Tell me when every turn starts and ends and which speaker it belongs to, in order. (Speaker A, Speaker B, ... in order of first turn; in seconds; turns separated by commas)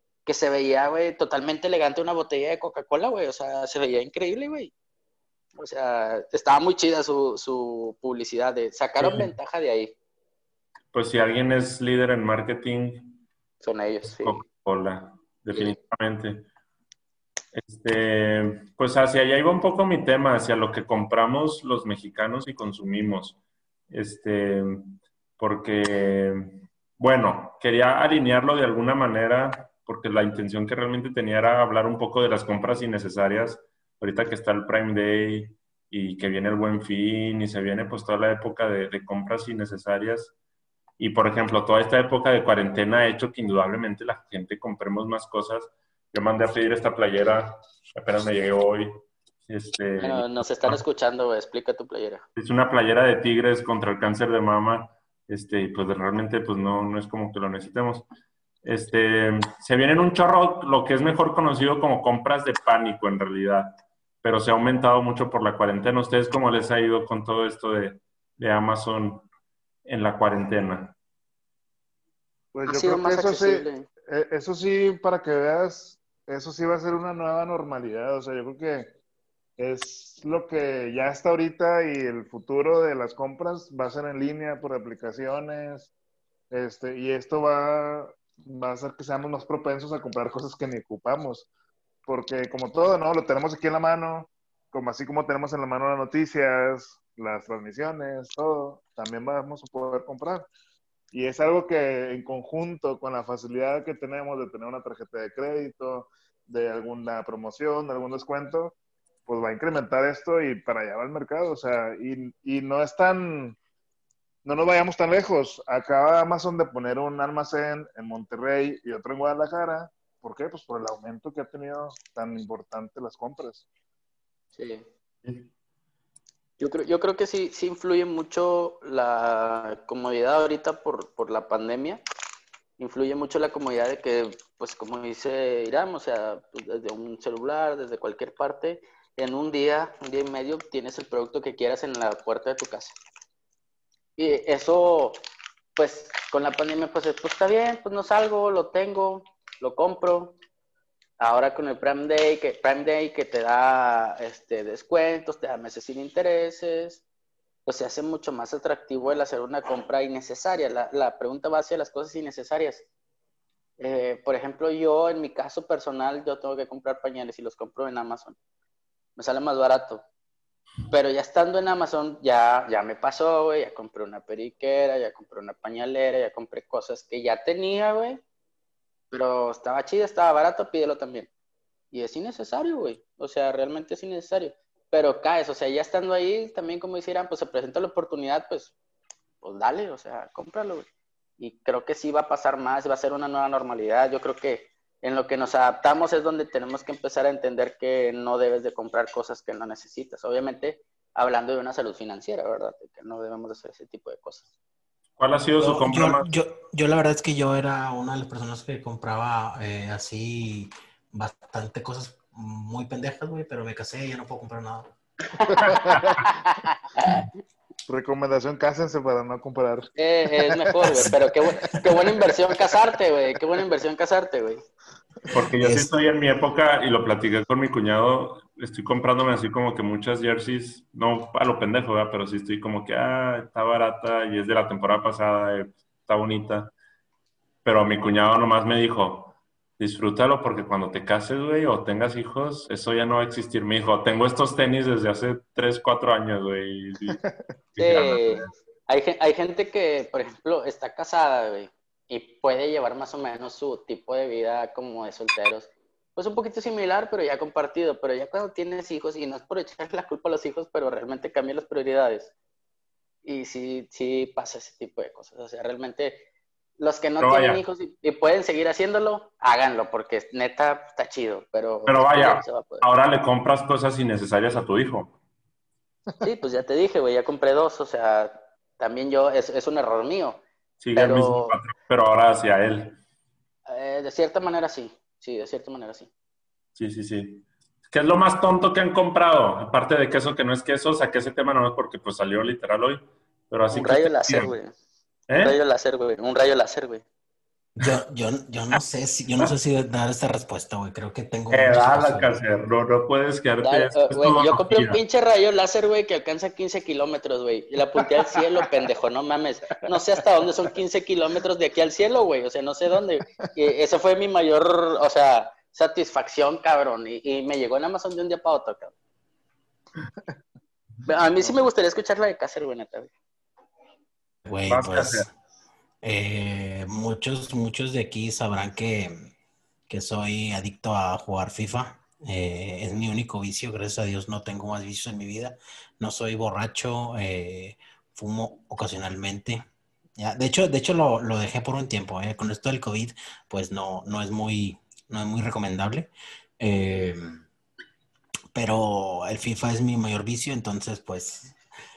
Speaker A: 0.3-4.7, Speaker A: 5.6-9.9, Speaker B: 9.0-9.3, Speaker B: 10.9-13.2, Speaker A: 13.6-14.4, Speaker B: 14.0-16.4, Speaker B: 17.5-23.4, Speaker B: 23.9-40.3, Speaker B: 41.0-50.8, Speaker A: 50.0-52.2, Speaker B: 52.4-58.0, Speaker B: 58.6-69.3, Speaker B: 69.8-71.0, Speaker C: 72.5-78.9, Speaker A: 72.7-73.9, Speaker C: 79.6-85.9, Speaker C: 86.5-91.5, Speaker C: 92.1-100.5, Speaker C: 101.1-108.8, Speaker C: 109.3-113.6, Speaker C: 114.4-123.7, Speaker A: 124.6-124.9, Speaker A: 126.6-132.0, Speaker A: 132.8-143.0, Speaker A: 144.2-145.2, Speaker A: 145.8-150.4, Speaker A: 151.2-157.0, Speaker A: 157.7-162.9, Speaker A: 163.8-168.4, Speaker A: 169.2-170.0, Speaker A: 170.9-178.2, Speaker A: 179.1-181.3, Speaker A: 181.9-188.7, Speaker A: 189.4-190.9, Speaker A: 191.4-204.5, Speaker B: 205.2-206.3, Speaker D: 205.6-214.9, Speaker A: 215.4-217.2, Speaker C: 215.5-216.2, Speaker B: 215.7-216.2, Speaker C: 217.9-219.9, Speaker A: 220.0-224.7, Speaker D: 220.9-221.1, Speaker B: 225.3-236.7, Speaker D: 225.6-225.9, Speaker B: 237.7-247.2, Speaker B: 247.8-248.5, Speaker A: 247.8-262.3, Speaker A: 263.2-266.3, Speaker A: 266.8-272.9, Speaker B: 267.2-267.6, Speaker B: 271.9-275.1, Speaker A: 276.2-280.4, Speaker B: 280.8-283.0, Speaker A: 281.0-281.6, Speaker A: 283.7-286.1, Speaker B: 286.8-294.5, Speaker A: 293.7-294.7, Speaker B: 295.3-295.6, Speaker A: 295.4-297.1, Speaker D: 297.8-302.4, Speaker B: 301.5-305.0, Speaker A: 303.6-318.9, Speaker A: 321.1-323.1, Speaker D: 324.4-325.3, Speaker B: 324.7-325.3, Speaker D: 326.0-329.3, Speaker D: 329.9-339.6, Speaker D: 340.2-347.4, Speaker D: 348.5-351.6